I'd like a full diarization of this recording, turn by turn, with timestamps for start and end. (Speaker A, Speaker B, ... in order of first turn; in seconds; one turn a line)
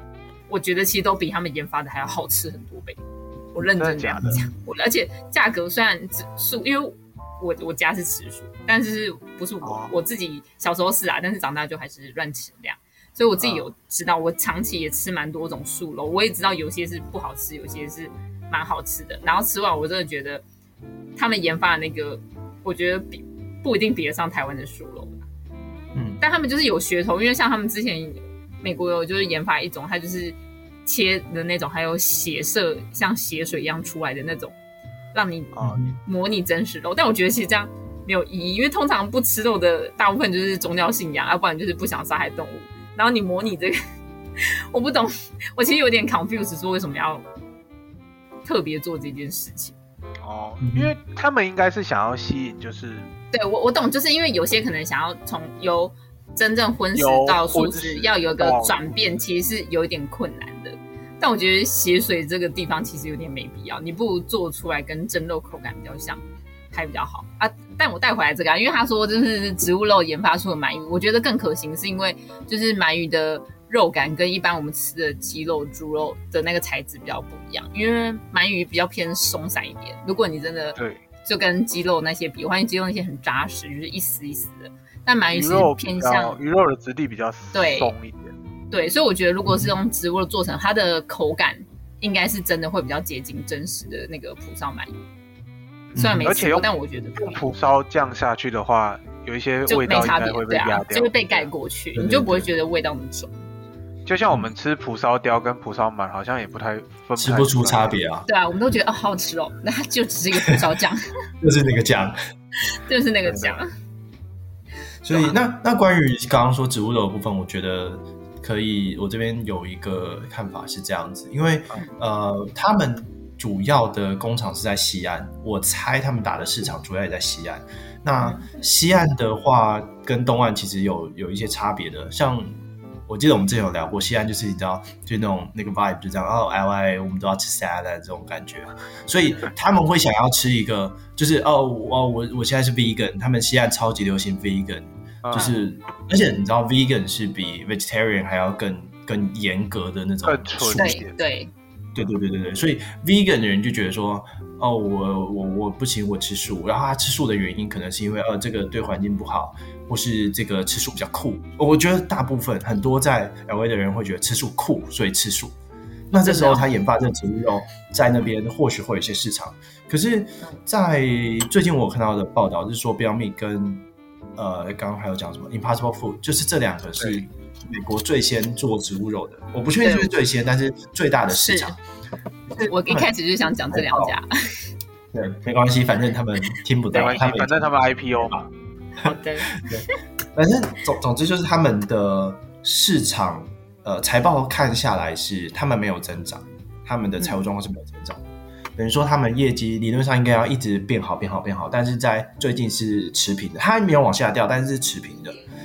Speaker A: 0.5-3.0
Speaker A: 3.5-20.4
Speaker B: 3.6-4.4
Speaker B: 9.6-10.0
Speaker B: 13.4-13.7
Speaker A: 21.1-25.2
Speaker C: 25.9-26.2
Speaker A: 26.2-34.5
Speaker A: 35.1-43.8
Speaker B: 35.5-35.8
Speaker C: 35.6-36.0
Speaker A: 44.4-47.2
Speaker A: 48.4-49.7
Speaker B: 50.2-53.1
Speaker C: 50.6-50.9
Speaker A: 53.3-86.4
Speaker B: 57.0-58.9
Speaker B: 80.8-81.0
Speaker B: 85.3-88.3
Speaker A: 87.5-87.9
Speaker A: 88.7-94.9
Speaker C: 89.5-89.8
Speaker C: 95.9-96.3
Speaker A: 96.0-97.4
Speaker B: 96.2-101.5
Speaker A: 99.7-103.3
Speaker C: 101.9-102.5
Speaker B: 104.0-108.0
Speaker C: 107.2-108.3
Speaker A: 108.3-111.0
Speaker C: 111.4-112.2
Speaker A: 112.7-113.7
Speaker C: 113.2-113.6
Speaker C: 115.0-132.5
Speaker A: 128.2-128.5
Speaker C: 133.1-151.0
Speaker B: 145.2-145.5
Speaker B: 150.2-151.1
Speaker A: 150.8-151.5
Speaker C: 151.9-165.5
Speaker C: 166.1-173.8
Speaker A: 166.2-166.7
Speaker C: 174.3-181.8
Speaker B: 177.0-177.2
Speaker A: 179.8-180.1
Speaker A: 181.3-181.8
Speaker A: 182.6-184.6
Speaker C: 183.7-184.2
Speaker C: 185.1-188.5
Speaker B: 186.9-188.3
Speaker A: 189.0-189.8
Speaker C: 189.0-198.2
Speaker C: 198.8-205.4